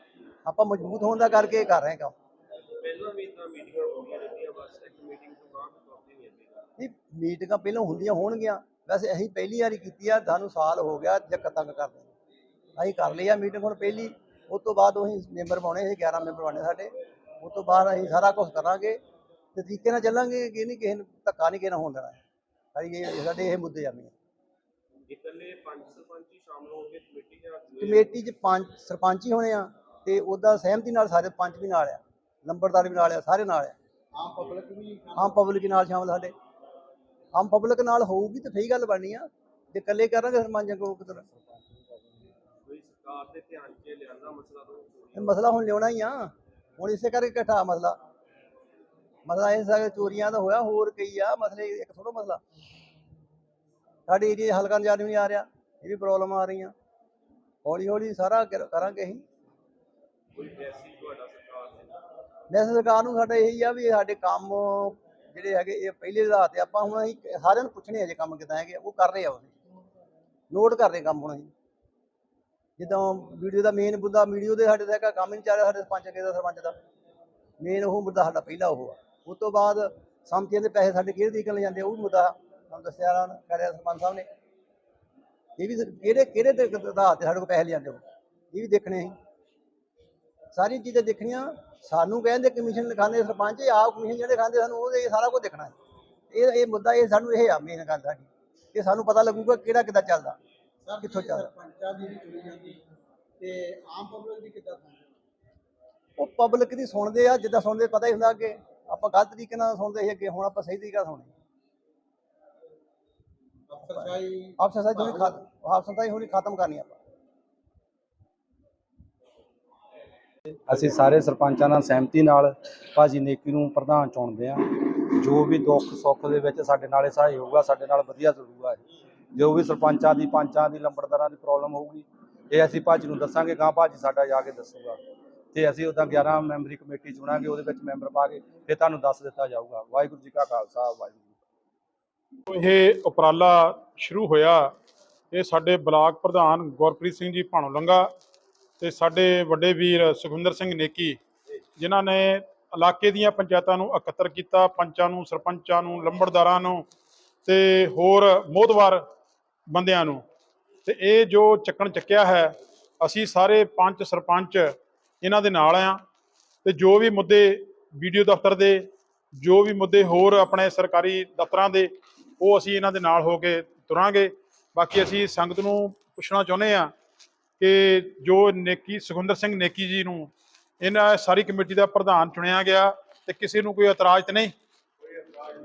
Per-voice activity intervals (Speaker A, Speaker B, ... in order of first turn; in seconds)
Speaker A: 0.5-2.1, 6.8-12.1, 12.8-19.0, 19.5-22.2, 22.8-24.1, 27.8-33.8, 35.2-36.3, 37.3-41.3, 45.1-48.0, 49.3-52.4, 54.1-56.7, 57.6-59.2, 62.5-69.5, 70.5-71.5, 72.8-76.8, 77.6-84.3, 85.6-89.2, 90.5-95.7, 96.3-100.4, 101.0-101.5, 106.2-111.3, 114.6-117.0
Speaker B: 2.8-6.7, 25.1-28.1, 42.6-45.4, 60.4-62.0
Speaker C: 34.1-35.4, 100.8-102.9, 103.4-105.1, 113.7-115.3
Speaker D: 41.5-41.9, 120.7-128.8, 129.3-135.0, 135.5-141.4
Speaker E: 142.5-144.7, 145.3-148.1, 148.8-151.2, 151.8-156.9, 157.4-159.0, 159.7-160.2, 160.9-166.0, 166.6-168.9, 169.4-176.9, 177.6-184.5